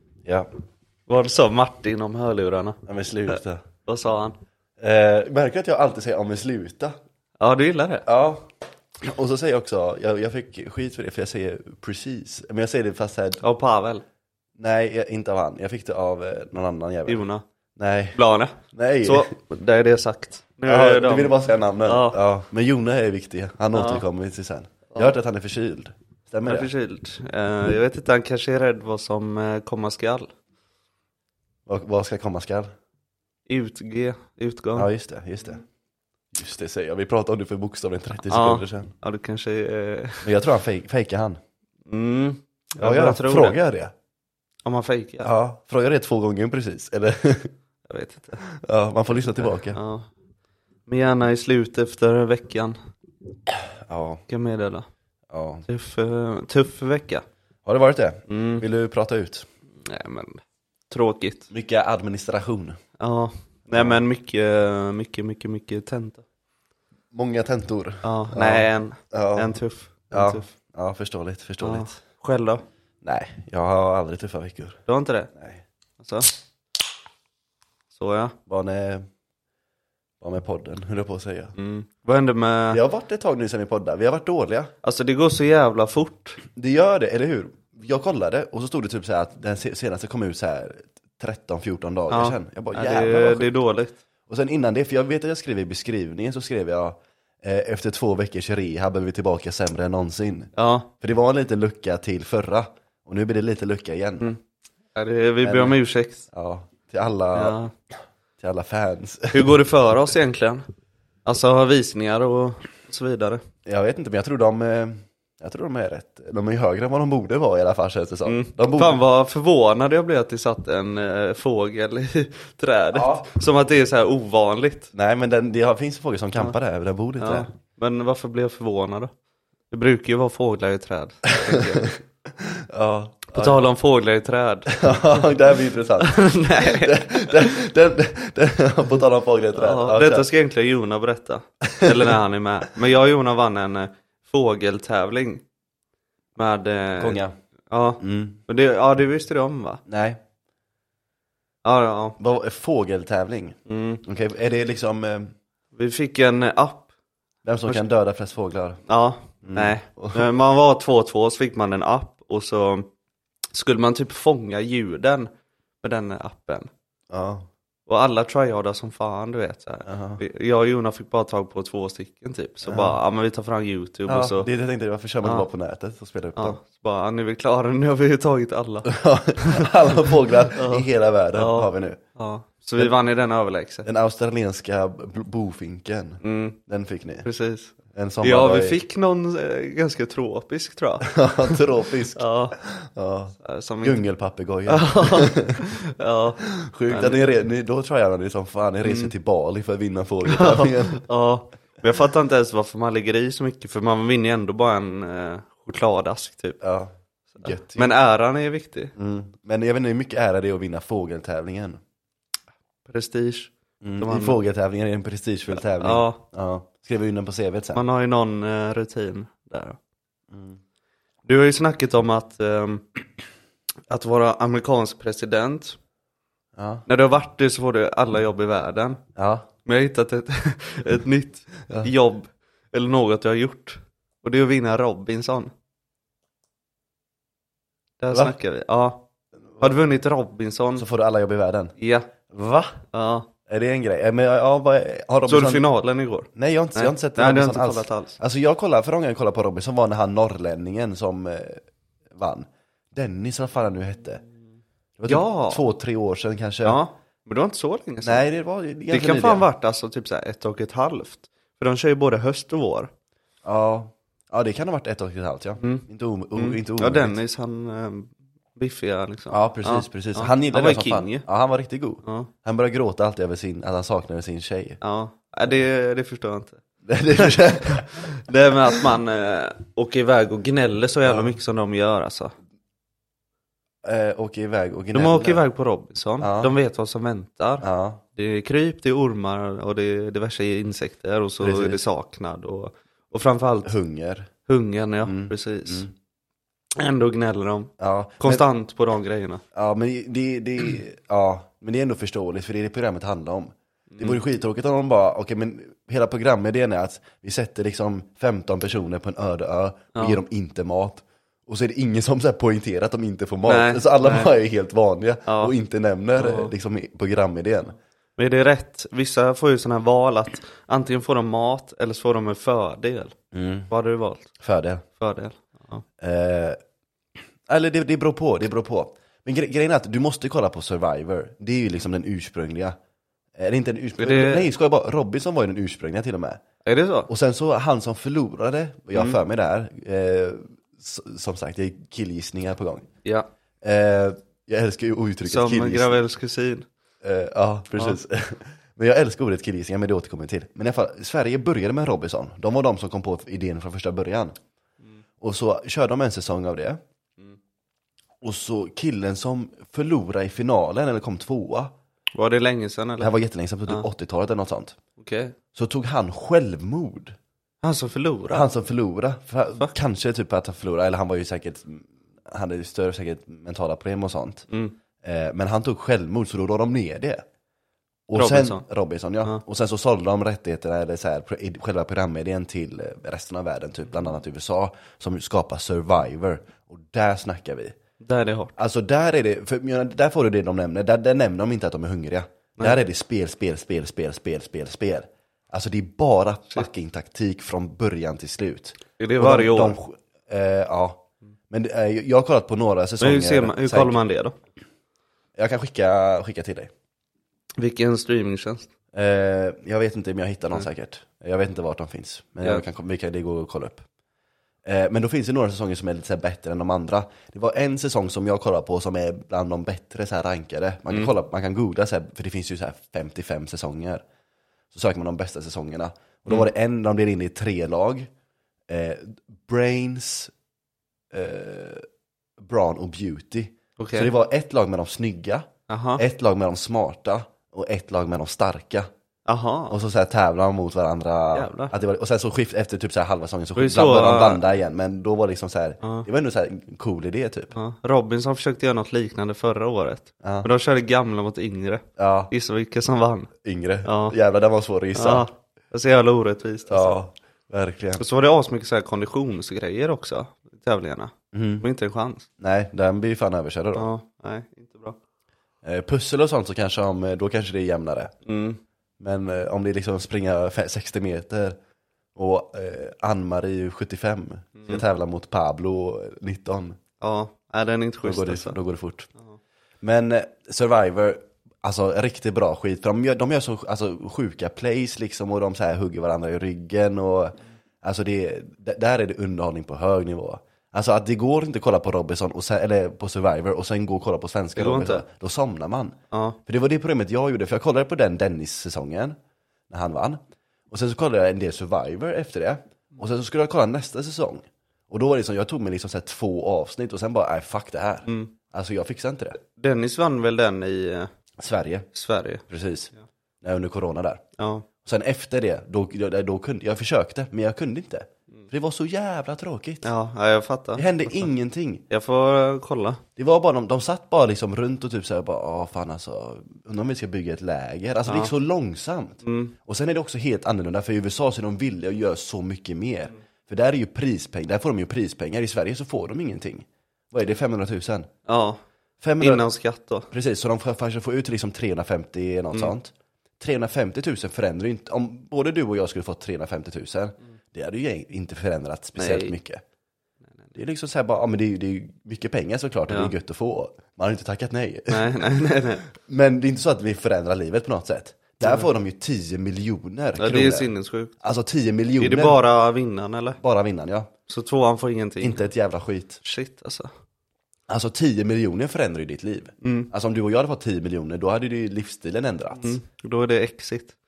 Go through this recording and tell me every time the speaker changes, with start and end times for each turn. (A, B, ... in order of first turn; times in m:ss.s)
0:01.1-0:04.4 A
0:02.9-0:03.6 B
0:04.8-0:07.0 B
0:07.4-0:08.1 A
0:08.1-0:08.5 B
0:09.0-0:13.4 B
0:13.4-0:14.0 A
0:14.6-0:17.2 B
0:17.1-0:17.4 A
0:17.8-0:18.2 B
0:18.1-0:22.2 A
0:18.7-0:19.4 B
0:20.6-0:26.7 B
0:23.7-0:24.0 A
0:26.5-0:30.3 A
0:31.7-0:32.7 B
0:33.5-0:34.9 A
0:34.8-0:35.6 B
0:36.3-0:38.9 B
0:38.3-0:40.3 A
0:40.2-0:41.4 B
0:41.9-0:43.6 A
0:42.8-0:43.9 B
0:44.6-0:45.3 A
0:45.2-0:47.5 B
0:47.9-0:48.4 A
0:48.6-0:49.8 B
0:49.1-0:50.1 A
0:50.9-0:52.8 A
0:53.5-0:54.2 B
0:54.3-0:54.9 A
0:55.3-0:55.7 B
0:55.7-0:57.2 A
0:57.6-0:59.5 B
0:58.3-0:58.6 A
0:59.8-1:01.5 A
1:01.5-1:02.8 B
1:03.0-1:06.2 A
1:03.7-1:04.0 B
1:07.1-1:09.6 B
1:08.0-1:10.5 A
1:10.1-1:11.9 B
1:11.6-1:12.6 A
1:13.0-1:14.8 B
1:14.9-1:15.3 A
1:15.4-1:15.6 B
1:16.0-1:16.3 A
1:17.9-1:18.4 A
1:18.5-1:19.1 B
1:20.2-1:21.5 B
1:21.6-1:22.8 A
1:22.7-1:24.7 B
1:24.8-1:26.4 A
1:26.5-1:33.5 B
1:32.1-1:34.0 A
1:34.3-1:44.3 B
1:40.6-1:40.9 A
1:45.0-1:46.3 A
1:45.4-1:47.6 B
1:47.3-1:47.7 A
1:48.4-1:49.6 B
1:49.3-1:50.7 A
1:51.3-1:53.4 A
1:53.7-1:59.0 B
1:58.2-2:04.9 A
2:02.9-2:03.4 B
2:04.9-2:07.5 B
2:07.2-2:09.1 A
2:09.7-2:11.9 A
2:11.5-2:13.6 B
2:13.3-2:15.2 A
2:14.7-2:20.3 B
2:16.0-2:17.5 A
2:19.6-2:25.4 A
2:21.7-2:22.2 B
2:26.4-2:29.8 A
2:27.0-2:27.4 B
2:28.0-2:28.4 B
2:29.9-2:30.2 B
2:31.6-2:32.2 A
2:32.2-2:35.3 B
2:33.7-2:34.0 A
2:35.8-2:36.9 A
2:37.4-2:38.8 B
2:38.9-2:42.9 A
2:39.4-2:40.3 B
2:43.5-2:45.3 A
2:45.8-2:46.7 A
2:47.1-2:47.5 B
2:47.9-2:54.5 A
2:49.9-2:50.2 B
2:52.6-2:53.0 B
2:54.1-2:56.6 B
2:56.4-2:59.7 A
2:58.9-3:02.0 B
3:00.5-3:03.9 A
3:03.8-3:07.3 B
3:06.2-3:06.6 A
3:07.2-3:11.6 A
3:07.9-3:08.8 B
3:11.1-3:15.6 B
3:12.2-3:12.6 A
3:13.4-3:14.0 A
3:14.7-3:17.2 A
3:16.5-3:21.0 B
3:18.8-3:19.1 A
3:20.3-3:26.6 A
3:26.6-3:27.9 B
3:27.4-3:28.9 A
3:29.0-3:31.8 B
3:32.9-3:34.4 A
3:33.8-3:37.8 B
3:35.6-3:36.2 A
3:37.7-3:39.8 A
3:40.3-3:40.6 B
3:41.3-3:42.8 A
3:43.9-3:45.8 A
3:46.6-3:46.8 B
3:46.9-3:49.0 A
3:49.2-3:49.5 B
3:49.7-3:55.5 A
3:58.0-3:59.0 A
3:58.1-3:58.4 B
3:59.6-4:00.9 A
4:00.8-4:01.8 B
4:01.8-4:02.1 A
4:02.3-4:02.8 B
4:02.9-4:03.3 A
4:03.5-4:05.7 B
4:05.3-4:08.2 A
4:06.4-4:11.6 B
4:12.1-4:14.2 B
4:15.0-4:16.8 B
4:15.1-4:15.6 A
4:16.6-4:18.2 A
4:18.0-4:19.5 B
4:18.9-4:22.9 A
4:23.4-4:27.2 B
4:25.6-4:31.3 A
4:29.3-4:34.8 B
4:32.0-4:32.3 A
4:34.8-4:36.6 A
4:36.9-4:38.0 B
4:37.1-4:42.3 A
4:43.8-4:45.4 B
4:44.9-4:53.7 A
4:46.2-4:46.6 B
4:47.6-4:48.0 B
4:51.4-4:51.8 B
4:53.6-4:54.3 B
4:54.5-4:55.9 A
4:55.0-4:55.9 B
4:56.8-4:59.4 A
4:57.8-4:58.5 B
4:59.5-5:17.8 B
5:03.9-5:04.2 A
5:13.4-5:14.3 A
5:15.3-5:15.5 A
5:16.2-5:16.5 A
5:18.2-5:23.2 A
5:23.3-5:23.7 B
5:23.7-5:24.3 A
5:24.4-5:24.8 B
5:25.0-5:25.8 A
5:26.0-5:26.6 B
5:27.5-5:32.8 B
5:33.4-5:36.4 B
5:34.0-5:34.5 A
5:36.6-5:37.1 A
5:37.1-5:42.9 B
5:38.9-5:39.2 A
5:43.6-5:46.0 B
5:45.2-5:46.7 A
5:47.0-5:54.4 B
5:55.2-5:56.8 B
5:58.2-6:01.7 B
6:02.1-6:03.1 A
6:03.0-6:04.8 B
6:05.0-6:05.4 A
6:05.5-6:07.2 B
6:07.6-6:08.5 A
6:08.3-6:14.5 B
6:14.5-6:14.8 A
6:15.0-6:17.2 B
6:18.1-6:27.8 B
6:18.2-6:18.6 A
6:28.0-6:28.6 A
6:28.6-6:44.0 B
6:39.0-6:39.8 A
6:43.0-6:44.4 A
6:45.4-6:46.7 B
6:47.6-6:48.7 A
6:48.9-6:53.8 B
6:54.6-7:04.0 B
7:04.7-7:08.1 B
7:08.7-7:10.3 B
7:11.1-7:11.9 B
7:12.4-7:18.9 B
7:13.8-7:14.1 A
7:15.7-7:16.0 A
7:19.3-7:19.8 A
7:19.7-7:27.5 B
7:21.3-7:21.7 A
7:23.6-7:24.4 A
7:25.8-7:26.1 A
7:27.5-7:33.3 A
7:30.2-7:30.5 B
7:32.0-7:32.3 B
7:33.4-7:35.3 B
7:33.8-7:34.2 A
7:35.0-7:37.0 A
7:36.7-7:38.0 B
7:38.0-7:42.3 A
7:41.3-7:41.7 B
7:42.4-7:43.9 B
7:43.8-7:45.0 A
7:45.6-7:48.1 B
7:48.2-7:48.6 A
7:49.0-7:51.6 B
7:52.2-7:56.8 B
7:54.6-7:54.8 A
7:57.0-7:58.6 A
7:58.0-7:59.1 B
7:59.8-8:19.2 B
8:14.6-8:15.0 A
8:16.1-8:16.4 A
8:19.7-8:29.4 B
8:28.1-8:28.3 A
8:29.4-8:31.1 A
8:31.4-8:31.9 B
8:31.9-8:32.4 A
8:32.5-8:32.9 B
8:33.4-8:34.2 B
8:34.4-8:34.7 A
8:34.8-8:39.9 B
8:39.8-8:41.3 A
8:40.8-8:41.8 B
8:41.9-8:43.0 A
8:43.2-8:58.1 B
8:48.1-8:48.3 A
8:49.2-8:49.6 A
8:58.3-8:58.6 A
8:59.0-8:59.5 B
8:59.2-9:00.1 A
9:00.1-9:09.6 B
9:09.0-9:09.4 A
9:10.6-9:15.2 B
9:14.9-9:15.9 A
9:16.0-9:22.4 B
9:18.4-9:18.7 A
9:20.2-9:21.1 A
9:22.0-9:23.4 A
9:23.4-9:24.1 B
9:24.3-9:25.4 A
9:25.2-9:26.2 B
9:26.2-9:26.9 A
9:27.7-9:32.8 B
9:29.6-9:29.9 A
9:32.5-9:34.0 A